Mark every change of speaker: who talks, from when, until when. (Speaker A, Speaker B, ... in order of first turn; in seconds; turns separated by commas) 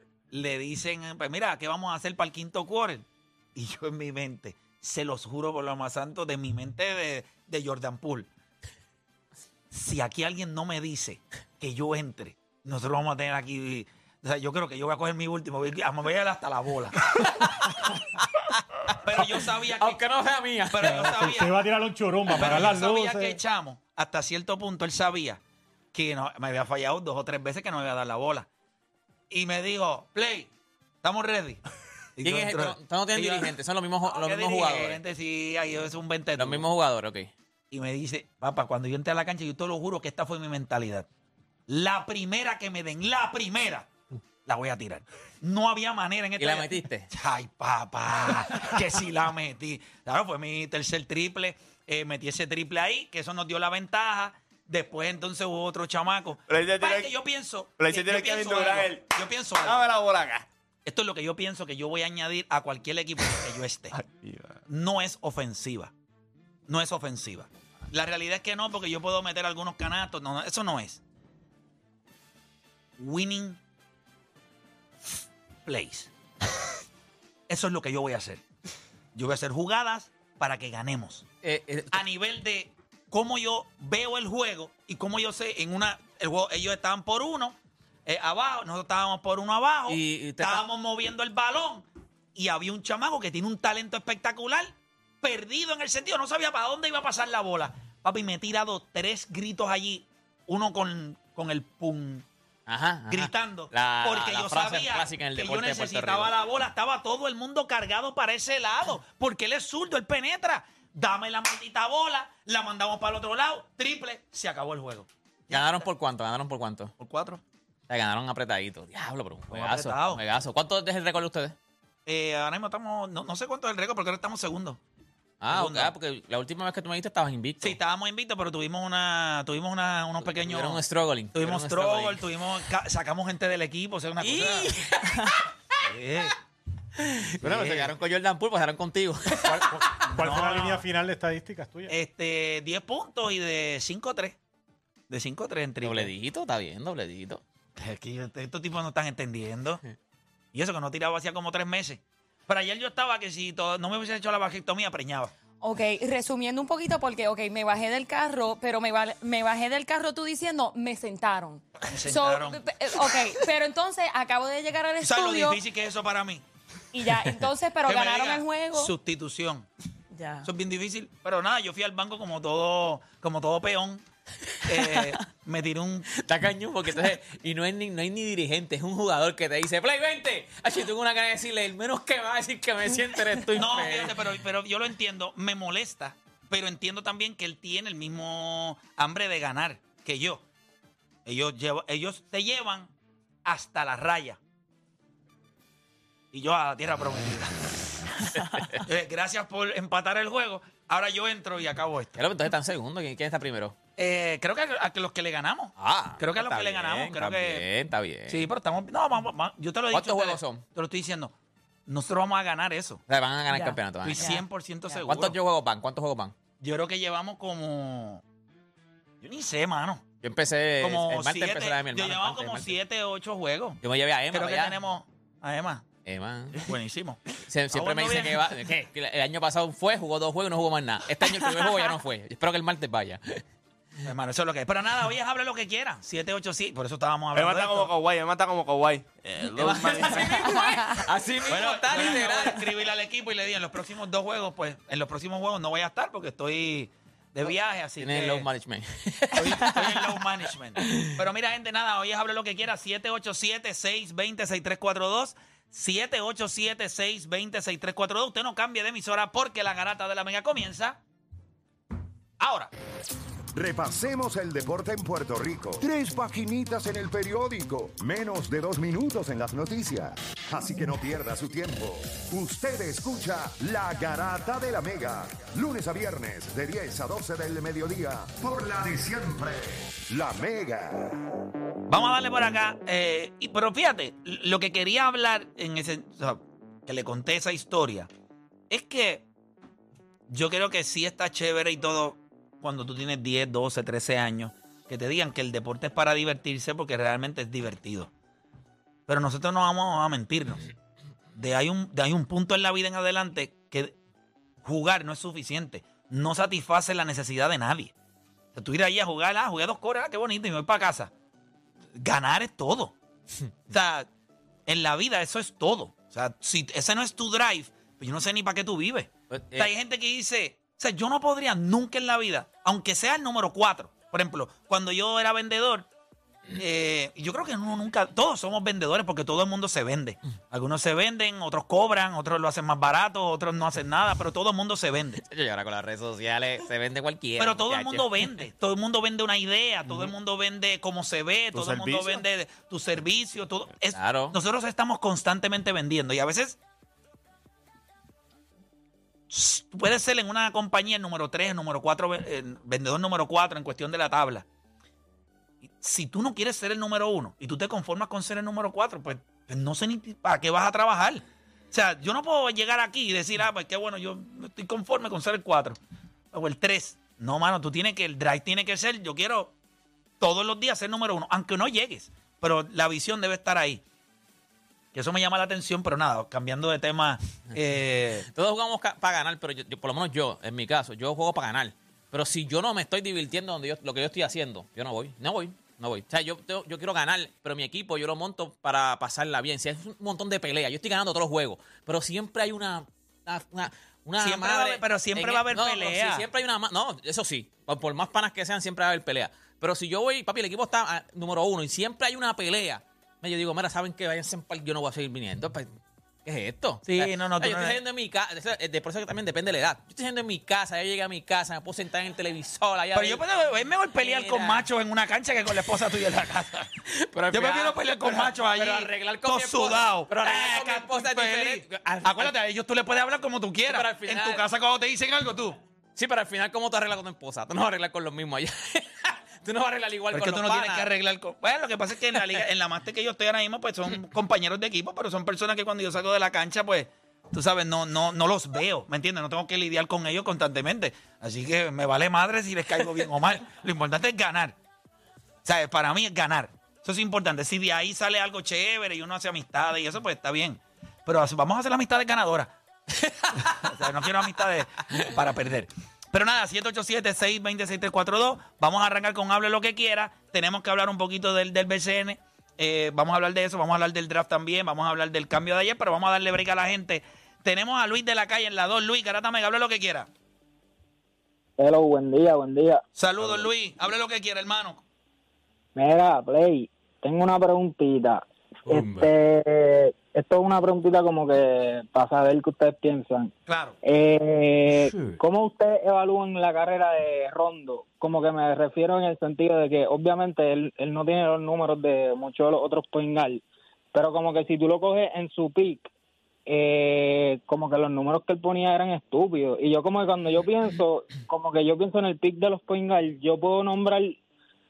Speaker A: 0.3-8.3, Speaker A: 9.7-17.1, Speaker A: 19.0-20.0, Speaker B: 19.8-21.5, Speaker A: 20.7-21.6, Speaker C: 20.9-23.4, Speaker A: 22.3-25.4, Speaker B: 22.3-22.6, Speaker A: 25.9-28.5, Speaker A: 29.3-30.5, Speaker A: 31.0-31.6, Speaker A: 32.2-33.5, Speaker B: 32.2-35.0, Speaker A: 34.1-36.7, Speaker B: 36.4-37.3, Speaker A: 37.7-41.1, Speaker A: 41.7-43.9, Speaker A: 44.5-59.9, Speaker B: 46.4-47.1, Speaker D: 56.5-57.1, Speaker D: 57.8-59.1, Speaker D: 59.6-60.5, Speaker A: 60.9-64.0, Speaker D: 63.9-64.6, Speaker A: 64.7-65.9, Speaker A: 66.7-71.0, Speaker A: 73.0-73.6, Speaker A: 75.7-76.1, Speaker A: 77.5-78.4, Speaker A: 79.2-81.3, Speaker B: 81.4-82.0, Speaker A: 81.9-102.3, Speaker B: 89.9-90.6, Speaker B: 102.7-106.3, Speaker A: 103.1-115.9, Speaker B: 115.5-116.9, Speaker A: 117.0-117.4, Speaker B: 117.9-121.5, Speaker A: 119.5-120.2, Speaker A: 122.1-124.8, Speaker B: 125.4-127.8, Speaker A: 125.5-125.9, Speaker A: 127.6-130.8, Speaker B: 130.2-132.2, Speaker A: 131.3-134.9, Speaker B: 134.2-135.3, Speaker A: 135.9-136.4, Speaker B: 137.0-140.0, Speaker A: 137.4-137.9, Speaker C: 139.4-141.9, Speaker A: 140.1-140.8, Speaker A: 141.9-144.4, Speaker A: 145.1-146.1, Speaker B: 145.8-147.4, Speaker A: 147.8-149.8, Speaker A: 150.5-155.3, Speaker E: 155.6-165.6, Speaker A: 161.9-163.2, Speaker A: 165.0-166.4, Speaker E: 166.9-168.9, Speaker A: 167.8-169.7, Speaker E: 170.1-170.5, Speaker A: 170.4-174.0, Speaker A: 174.6-176.1, Speaker B: 176.1-184.2, Speaker A: 183.6-190.4, Speaker A: 191.3-192.9, Speaker A: 193.4-194.4, Speaker A: 196.3-198.3, Speaker B: 198.6-198.8, Speaker A: 198.8-202.2, Speaker B: 202.2-203.8, Speaker A: 204.0-207.6, Speaker B: 205.8-208.5, Speaker A: 208.3-211.3, Speaker B: 209.9-210.6, Speaker A: 211.9-213.0, Speaker B: 213.1-214.3, Speaker E: 213.5-214.4, Speaker A: 214.0-215.4, Speaker B: 214.9-216.3, Speaker A: 216.6-218.2, Speaker A: 219.2-220.1, Speaker B: 220.2-222.8, Speaker A: 220.8-225.9, Speaker B: 223.8-224.8, Speaker B: 226.1-226.7, Speaker A: 226.6-228.5, Speaker B: 227.5-233.4, Speaker E: 231.4-231.9, Speaker A: 234.1-237.9, Speaker D: 237.3-240.3, Speaker B: 239.6-242.7, Speaker A: 239.6-240.8, Speaker E: 240.3-241.1, Speaker A: 241.5-248.5, Speaker B: 248.0-249.8, Speaker A: 249.3-261.0, Speaker B: 250.8-251.1, Speaker A: 262.4-262.7, Speaker F: 263.5-281.2, Speaker A: 281.9-288.1, Speaker A: 288.7-289.2, Speaker A: 290.3-298.1, Speaker A: 299.1-300.7, Speaker A: 301.4-304.0, Speaker A: 304.6-307.9, Speaker A: 308.6-311.1, Speaker A: 312.0-312.9, Speaker A: 313.7-314.1, Speaker A: 314.7-325.9, Speaker B: 319.3-319.7, Speaker A: 326.6-335.2, Speaker B: 335.2-338.4, Speaker A: 337.4-346.6, Speaker D: 341.5-342.2, Speaker B: 343.9-344.4, Speaker A: 349.3-354.5, Speaker A: 355.8-365.8, Speaker A: 366.3-369.5, Speaker A: 370.2-373.8, Speaker A: 374.9-378.3, Speaker B: 378.2-405.7, Speaker A: 394.2-396.3, Speaker B: 406.2-413.2, Speaker A: 406.9-407.8, Speaker A: 412.9-416.7, Speaker B: 414.0-414.7, Speaker B: 416.9-422.3, Speaker A: 417.3-425.6, Speaker B: 423.6-424.4, Speaker B: 426.0-430.9, Speaker A: 430.1-444.6, Speaker A: 445.4-452.5, Speaker B: 453.0-453.5, Speaker A: 453.4-470.1, Speaker G: 471.6-472.8, Speaker A: 473.0-474.8, Speaker G: 475.8-483.3, Speaker A: 483.5-483.8, Speaker G: 483.8-493.4, Speaker G: 493.9-495.9, Speaker G: 496.5-504.2